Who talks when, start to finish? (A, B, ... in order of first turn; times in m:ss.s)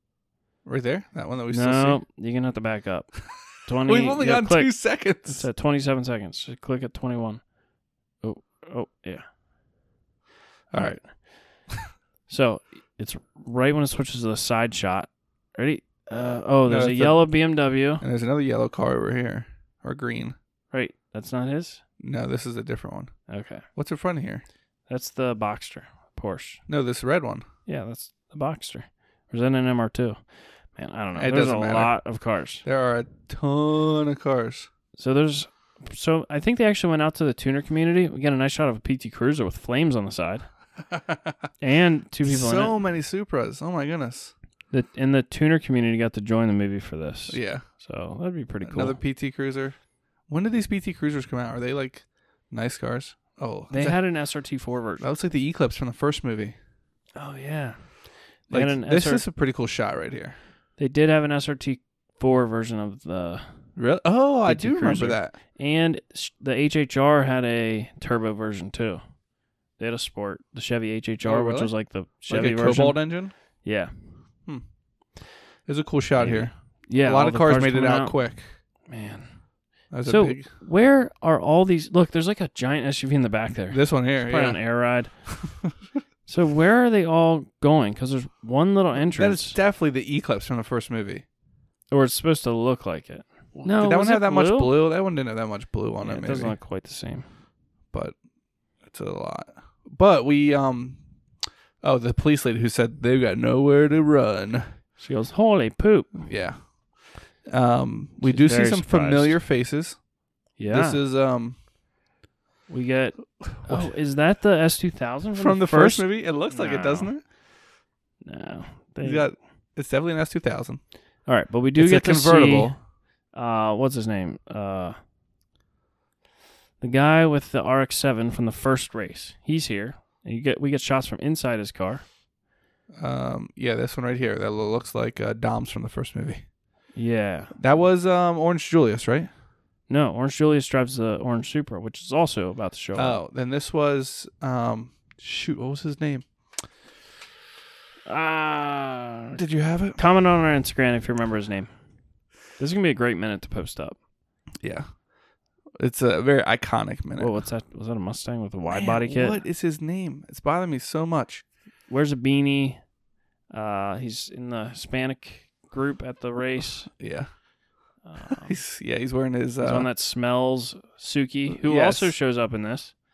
0:00.6-0:02.0 A
0:01.5-0:07.4 B
0:03.8-0:05.5 A
0:08.2-0:09.2 B
0:10.7-0:11.0 A
0:10.7-0:11.0 B
0:12.3-0:18.0 B
0:16.6-0:20.4 A
0:20.7-0:21.8 B
0:22.0-0:23.1 A
0:23.3-0:23.6 B
0:23.7-0:24.4 A
0:24.9-0:26.6 B
0:26.7-0:27.4 A
0:27.6-0:32.6 B
0:31.1-0:32.0 A
0:32.6-0:34.7 A
0:35.0-0:40.4 B
0:40.9-0:41.3 A
0:41.6-0:42.8 B
0:42.2-0:44.3 A
0:44.7-0:49.0 B
0:47.3-0:47.6 A
0:48.6-0:49.8 A
0:50.3-0:54.0 A
0:53.7-0:55.0 B
0:55.0-0:56.5 A
0:57.2-0:59.2 B
0:58.5-1:00.4 A
1:00.8-1:03.6 B
1:03.8-1:05.4 A
1:04.4-1:09.0 B
1:09.8-1:14.2 B
1:11.2-1:13.3 A
1:15.6-1:18.4 A
1:16.2-1:18.2 B
1:18.9-1:19.4 B
1:19.9-1:20.4 A
1:20.0-1:25.5 B
1:23.7-1:24.6 A
1:26.2-1:29.6 B
1:29.0-1:31.2 A
1:31.9-1:34.8 B
1:33.5-1:36.6 A
1:36.0-1:37.2 B
1:38.8-1:41.0 A
1:41.8-1:44.6 A
1:45.0-1:46.3 B
1:46.2-1:46.8 A
1:47.4-1:50.0 A
1:48.2-1:49.4 B
1:50.6-1:51.0 B
1:50.7-1:51.6 A
1:52.7-1:57.2 B
1:53.5-1:53.9 A
1:55.4-1:57.2 A
1:58.2-1:59.3 B
1:59.0-2:00.8 A
2:01.2-2:02.8 B
2:01.8-2:02.8 A
2:03.3-2:04.9 B
2:06.8-2:12.0 B
2:13.0-2:16.4 A
2:16.9-2:17.5 B
2:17.5-2:19.3 A
2:19.9-2:23.2 B
2:22.9-2:26.2 A
2:28.1-2:29.4 B
2:29.4-2:30.0 A
2:30.0-2:31.7 B
2:32.5-2:34.0 B
2:34.6-2:34.9 A
2:35.8-2:37.4 A
2:37.2-2:39.4 B
2:38.7-2:41.4 A
2:41.9-2:42.8 B
2:43.5-2:46.9 B
2:47.0-2:47.3 A
2:48.0-2:48.6 B
2:48.3-2:49.9 A
2:49.6-2:52.9 B
2:51.5-2:52.1 A